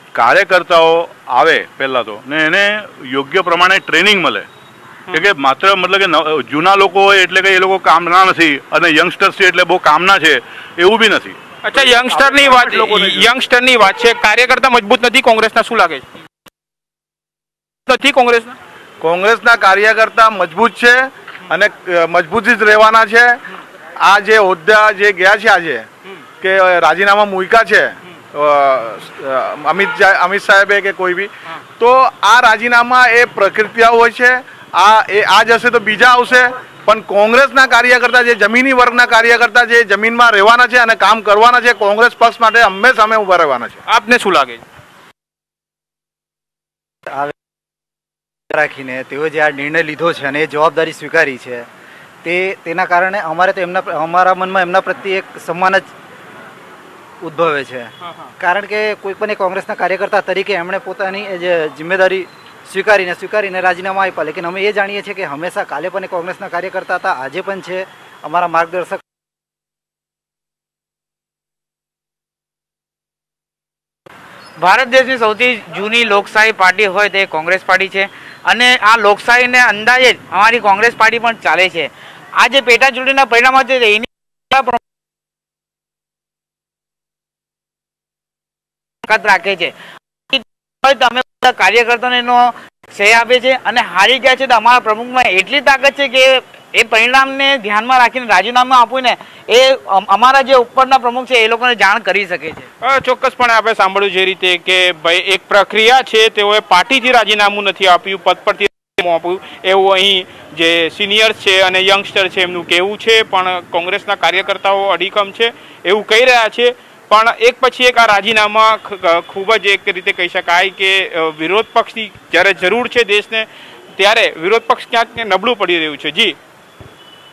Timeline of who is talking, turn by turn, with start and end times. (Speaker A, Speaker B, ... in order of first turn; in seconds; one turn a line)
Speaker A: 0.1-4.5
Speaker A: 5.1-11.4
Speaker B: 11.6-16.1
Speaker A: 12.2-13.2
Speaker C: 12.3-12.6
Speaker B: 17.9-18.6
Speaker C: 19.0-23.4
Speaker C: 24.0-25.8
Speaker C: 26.4-43.8
Speaker B: 43.9-44.6
Speaker D: 47.1-47.3
Speaker D: 48.5-51.7
Speaker D: 52.2-55.9
Speaker D: 57.2-69.0
Speaker E: 74.6-84.8
Speaker E: 89.0-89.7
Speaker E: 90.3-102.7
Speaker B: 102.8-123.5
Speaker B: 124.0-126.3